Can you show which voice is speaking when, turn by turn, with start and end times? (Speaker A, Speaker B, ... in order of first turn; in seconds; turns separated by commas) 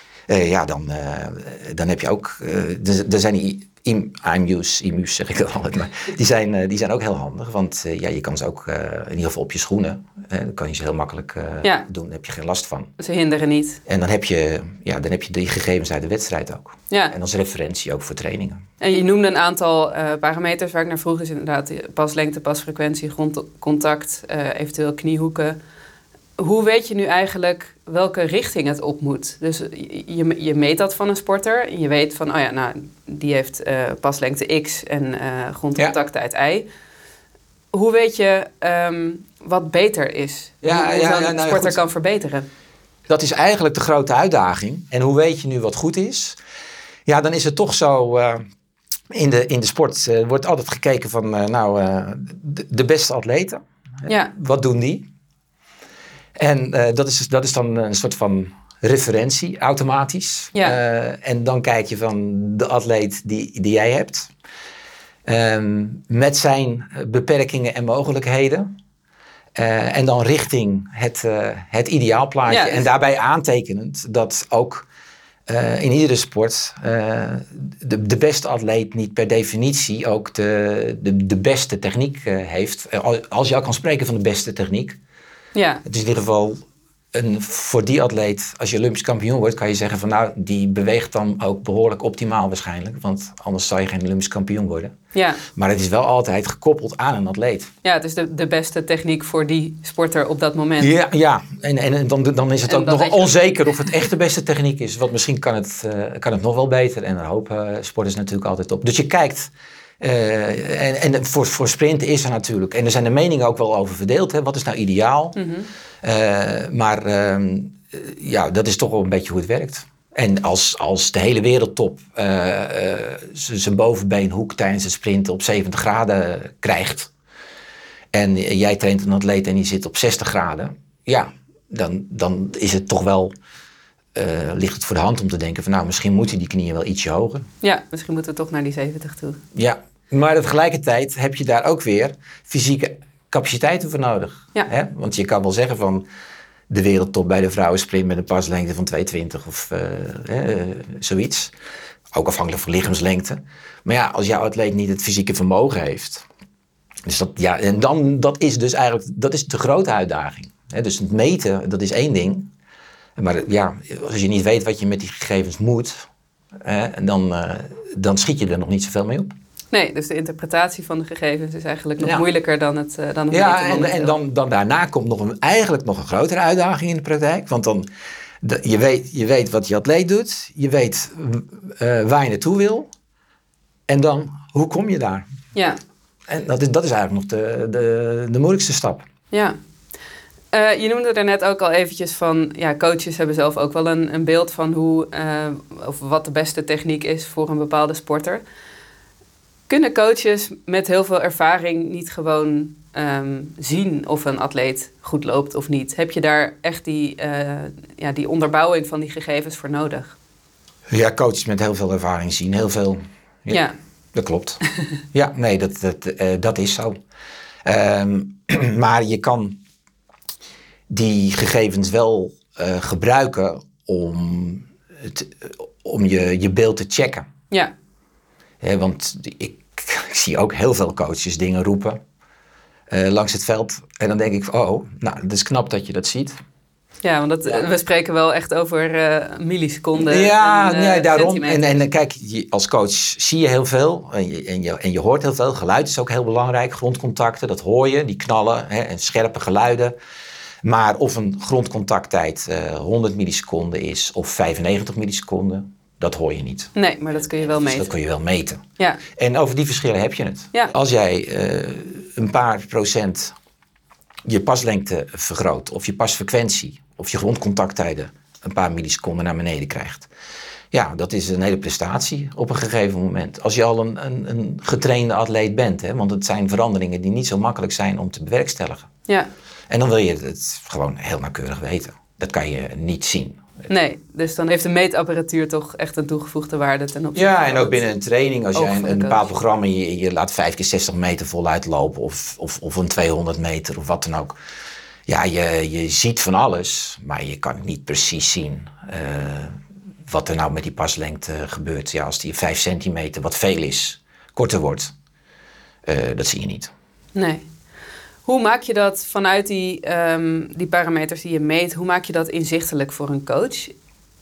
Speaker A: 0.3-12.9, Speaker B: 13.0-13.8, Speaker A: 13.9-18.6, Speaker B: 16.9-17.1, Speaker B: 18.8-25.6, Speaker B: 26.4-36.7, Speaker B: 37.7-42.5, Speaker A: 40.6-41.8, Speaker A: 43.1-46.4, Speaker A: 47.1-48.4, Speaker A: 49.1-55.1, Speaker B: 54.1-54.3, Speaker A: 56.4-64.3, Speaker A: 65.2-68.7, Speaker A: 69.5-74.9, Speaker B: 72.5-72.9, Speaker A: 75.5-85.0, Speaker B: 85.5-85.8, Speaker A: 85.8-86.6, Speaker A: 87.1-94.9, Speaker B: 95.1-95.4, Speaker A: 95.5-97.7, Speaker B: 97.8-100.9, Speaker A: 100.8-115.4, Speaker B: 102.7-104.0, Speaker B: 115.4-115.7, Speaker A: 116.0-127.1, Speaker A: 128.1-133.3, Speaker A: 134.2-137.5, Speaker B: 137.6-139.4, Speaker A: 139.6-146.1, Speaker A: 146.7-151.5, Speaker A: 152.1-156.3, Speaker A: 157.1-162.5, Speaker A: 163.2-166.1, Speaker A: 166.6-169.3, Speaker B: 169.7-174.2, Speaker A: 172.0-172.2, Speaker A: 173.3-177.9, Speaker A: 178.4-182.9, Speaker A: 183.9-185.3, Speaker B: 185.5-185.8, Speaker A: 186.3-189.1, Speaker B: 189.3-189.6, Speaker B: 190.5-198.4, Speaker B: 199.7-210.2, Speaker A: 210.9-213.6, Speaker B: 213.5-213.8, Speaker A: 214.1-214.6, Speaker A: 215.1-217.0, Speaker A: 217.7-219.6, Speaker A: 220.9-227.3, Speaker A: 228.6-232.0, Speaker A: 232.9-236.4, Speaker B: 237.0-241.8, Speaker A: 240.0-249.9, Speaker A: 250.6-256.7, Speaker B: 256.8-257.9, Speaker A: 257.4-263.3, Speaker A: 264.3-270.1, Speaker A: 270.7-278.9, Speaker A: 279.7-283.4, Speaker B: 283.7-287.9, Speaker A: 287.1-294.4, Speaker B: 288.5-289.3, Speaker A: 295.1-304.9, Speaker A: 305.9-306.7, Speaker B: 307.1-307.5, Speaker B: 308.2-313.7